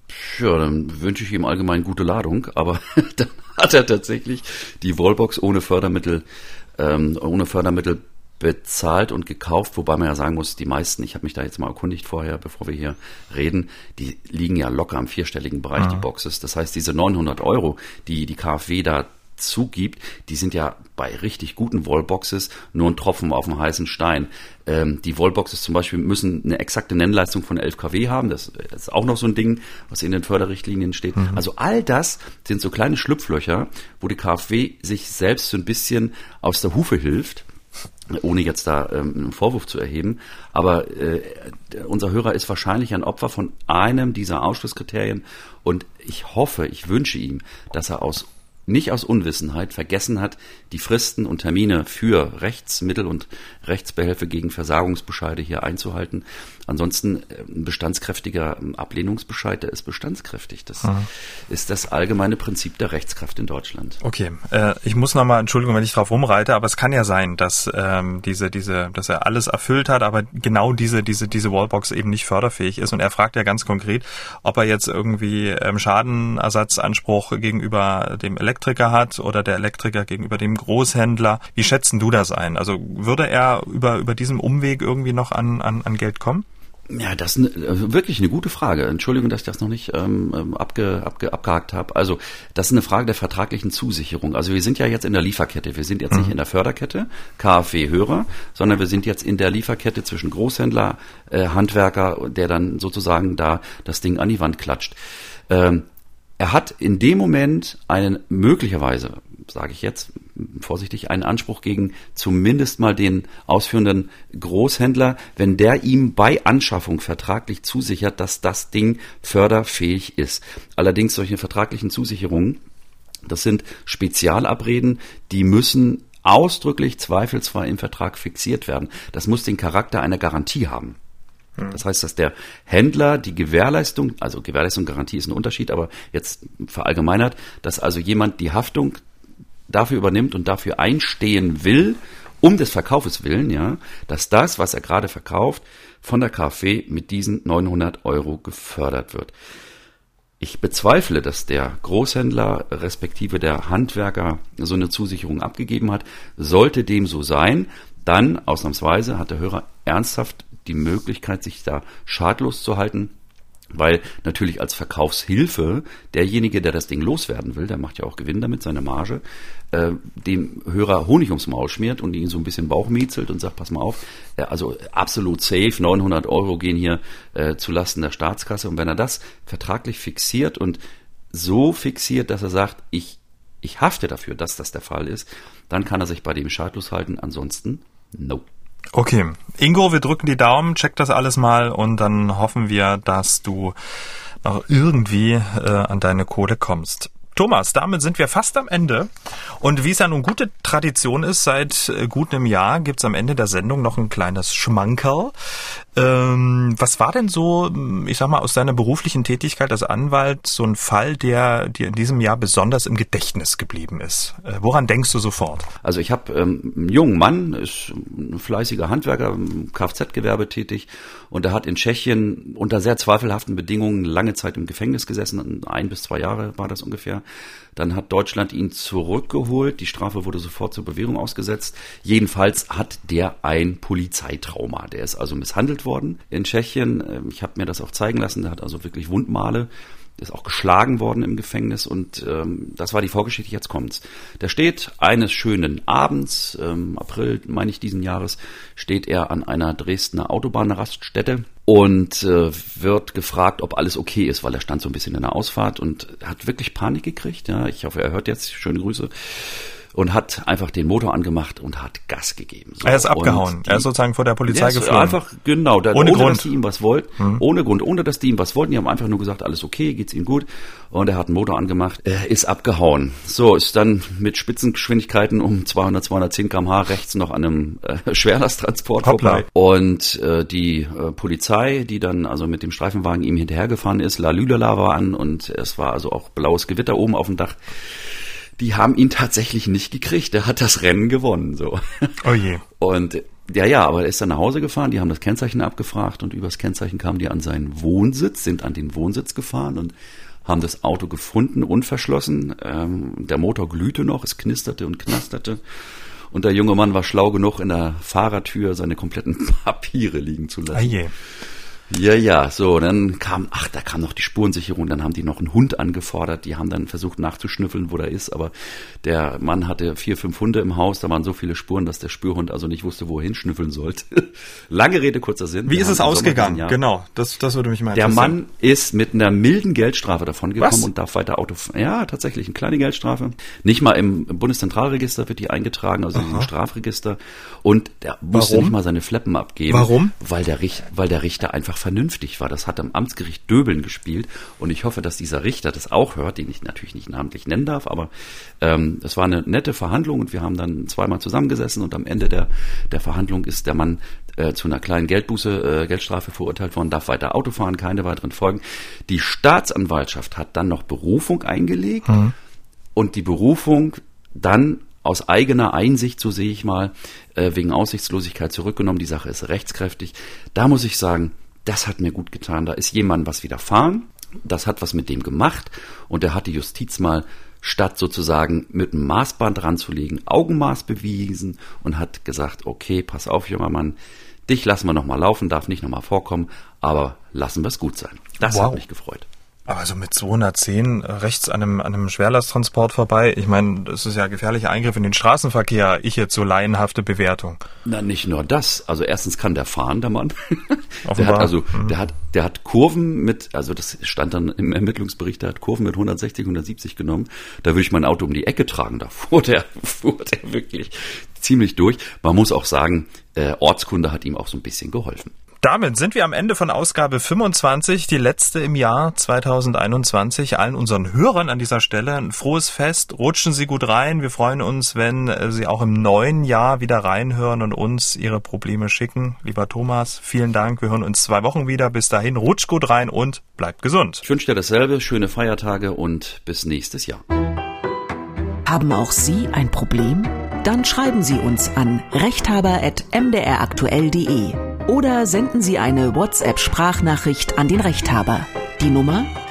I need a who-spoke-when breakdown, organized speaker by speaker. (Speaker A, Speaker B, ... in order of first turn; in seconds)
Speaker A: 0.1-6.2, 6.8-37.5, 38.1-61.0, 61.5-64.0, 86.9-105.0, 105.5-105.8, 106.4-122.6, 123.2-131.0, 131.7-139.0, 139.7-149.3, 150.4-163.1, 163.7-180.8, 181.3-188.5, 215.8-227.2, 227.8-263.9, 264.5-292.2, 292.8-299.9, 300.4-305.6, 306.3-311.0, 311.9-326.8, 327.9-348.1, 348.6-362.2, 362.9-383.9, 384.5-389.3, 397.9-415.3, 434.2-437.2
Speaker B: 15.8-16.0, 64.0-86.4, 188.9-193.8, 194.4-205.3, 205.9-215.7, 262.8-265.2, 265.9-266.5, 279.0-279.4, 292.2-292.6, 310.7-311.1, 325.7-328.4, 330.6-330.9, 336.1-336.5, 338.3-338.8, 339.7-340.1, 388.4-388.8, 389.7-397.6, 401.1-401.9, 415.6-434.2
Speaker C: 438.7-449.3